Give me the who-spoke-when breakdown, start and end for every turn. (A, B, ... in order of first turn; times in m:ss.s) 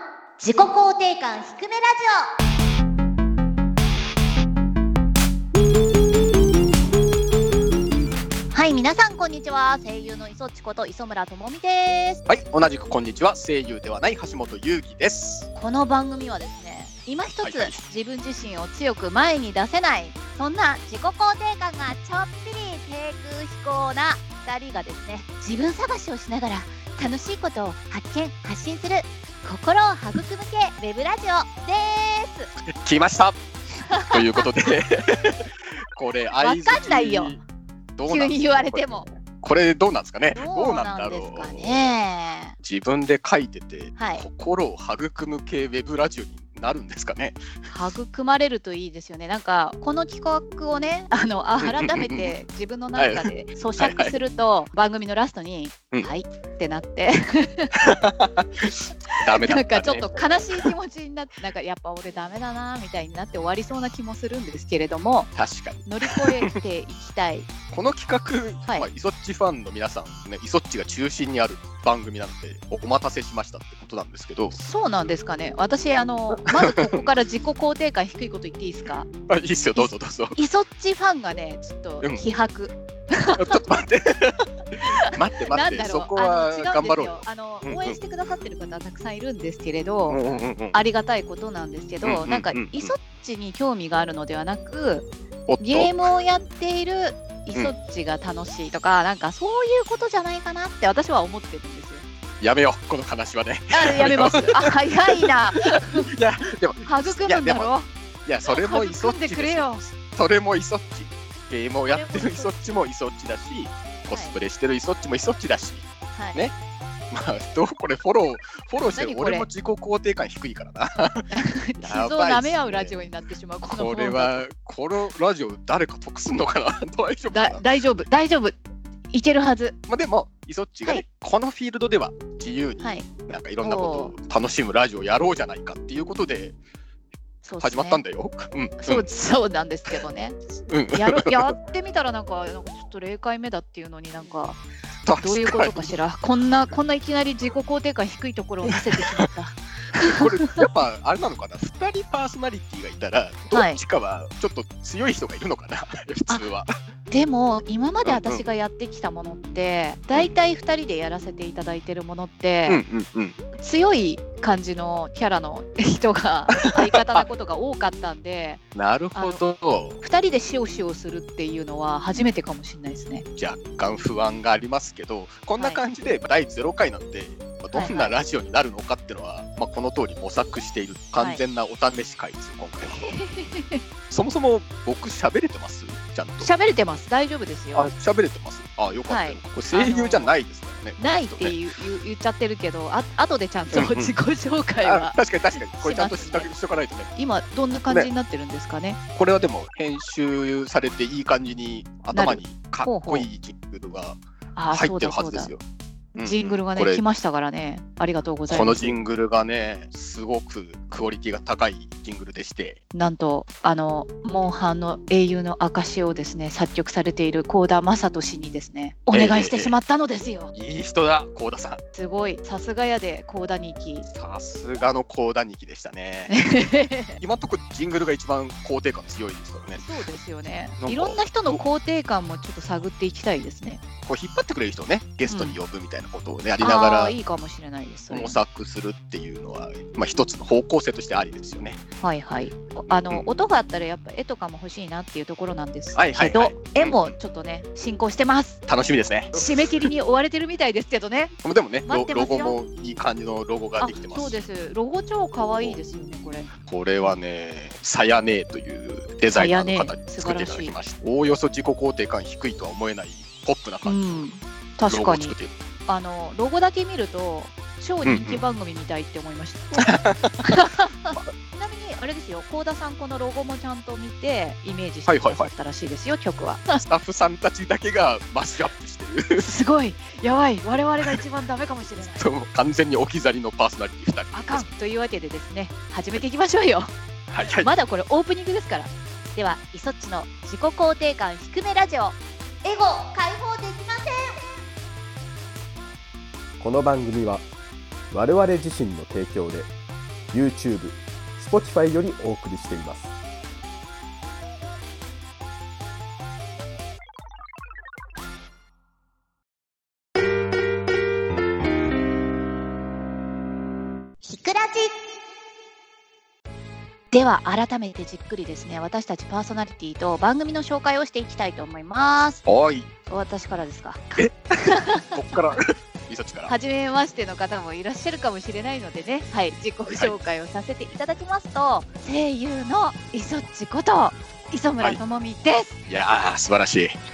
0:00.4-0:02.3 A
0:08.5-0:12.2 A
0:12.2-0:15.5 B
0:15.5-0:32.5 A
0:17.4-0:17.8 B
0:32.7-0:33.4 B
0:33.9-0:34.5 A
0:34.1-0:37.4 B
0:36.4-0:37.4 A
0:37.9-0:41.9 B
0:38.1-0:39.1 A
0:40.3-0:42.5 A
0:42.6-0:47.5 B
0:44.0-0:44.2 A
0:47.7-0:57.7 A
0:51.6-0:52.3 B
0:53.0-0:54.1 B
0:57.8-1:00.7 B
0:59.1-1:05.3 A
1:05.3-1:06.2 B
1:05.8-1:07.5 A
1:07.7-1:14.6 B
1:14.5-1:19.1 A
1:16.4-1:17.0 B
1:19.3-1:20.4 B
1:19.8-1:23.6 A
1:23.4-1:28.0 B
1:25.5-1:30.2 A
1:30.1-1:30.8 B
1:30.7-1:35.1 A
1:32.0-1:32.9 B
1:35.5-1:36.1 B
1:35.6-1:42.0 A
1:42.4-1:47.7 B
1:43.7-1:46.1 A
1:46.8-1:47.9 A
1:48.2-1:56.5 B
1:48.5-1:49.8 A
1:51.9-1:52.8 A
1:54.1-1:54.4 A
1:56.1-1:56.4 A
1:57.1-2:01.2 B
1:58.9-1:59.5 A
2:01.3-2:04.4 A
2:01.8-2:03.0 B
2:03.7-2:07.6 B
2:07.3-2:08.6 A
2:09.1-2:09.8 A
2:09.9-2:16.6 B
2:12.8-2:13.1 A
2:13.6-2:14.1 A
2:17.4-2:18.0 A
2:17.6-2:19.0 B
2:18.8-2:20.4 A
2:20.7-2:21.5 B
2:20.9-2:24.6 A
2:25.0-2:25.9 B
2:25.2-2:30.6 A
2:30.0-2:36.7 B
2:33.5-2:33.8 A
2:37.1-2:42.8 A
2:38.0-2:38.5 B
2:42.7-2:43.4 B
2:43.6-2:48.6 A
2:46.6-2:47.2 B
2:48.7-2:50.0 B
2:49.1-2:49.4 A
2:50.0-2:53.2 A
2:53.4-3:03.0 B
2:57.7-2:58.1 A
3:02.8-3:03.8 A
3:04.1-3:06.5 B
3:06.4-3:07.9 A
3:07.7-3:11.6 B
3:09.1-3:10.3 A
3:11.0-3:16.5 A
3:13.7-3:14.1 B
3:14.8-3:17.1 B
3:17.1-3:19.0 A
3:19.1-3:24.2 B
3:22.1-3:23.3 A
3:24.5-3:25.5 A
3:24.7-3:25.6 B
3:26.1-3:27.0 B
3:26.2-3:29.0 A
3:28.5-3:32.8 B
3:32.9-3:40.5 A
3:39.1-3:39.7 B
3:40.5-3:41.8 B
3:41.9-3:44.1 A
3:44.1-3:46.3 B
3:46.3-3:47.2 A
3:47.2-3:49.8 B
3:49.8-3:53.8 A
3:50.8-3:51.6 B
3:54.0-3:57.2 B
3:55.3-3:55.6 A
3:56.6-3:58.4 A
3:58.1-4:01.8 B
4:02.0-4:08.6 A
4:02.9-4:03.3 B
4:05.9-4:07.1 B
4:08.6-4:09.9 B
4:09.3-4:12.6 A
4:11.4-4:14.4 B
4:13.8-4:16.5 A
4:15.4-4:15.8 B
4:16.6-4:24.3 B
4:19.3-4:20.8 A
4:23.8-4:25.4 A
4:24.9-4:25.5 B
4:25.9-4:36.8 A
4:28.0-4:28.4 B
4:29.8-4:30.6 B
4:35.1-4:35.5 B
4:36.8-4:39.5 B
4:39.4-4:42.3 A
4:42.2-4:44.7 B
4:44.3-4:46.9 A
4:47.3-4:47.7 B
4:47.5-4:54.4 A
4:56.6-4:57.4 C
4:58.1-4:59.7 C
5:00.3-5:03.1 C
5:14.2-5:14.9 A
5:17.1-5:22.4 A
5:22.4-5:22.9 B
5:23.1-5:25.2 A
5:24.2-5:26.5 B
5:26.5-5:35.8 A
5:29.9-5:30.1 B
5:35.8-5:37.0 B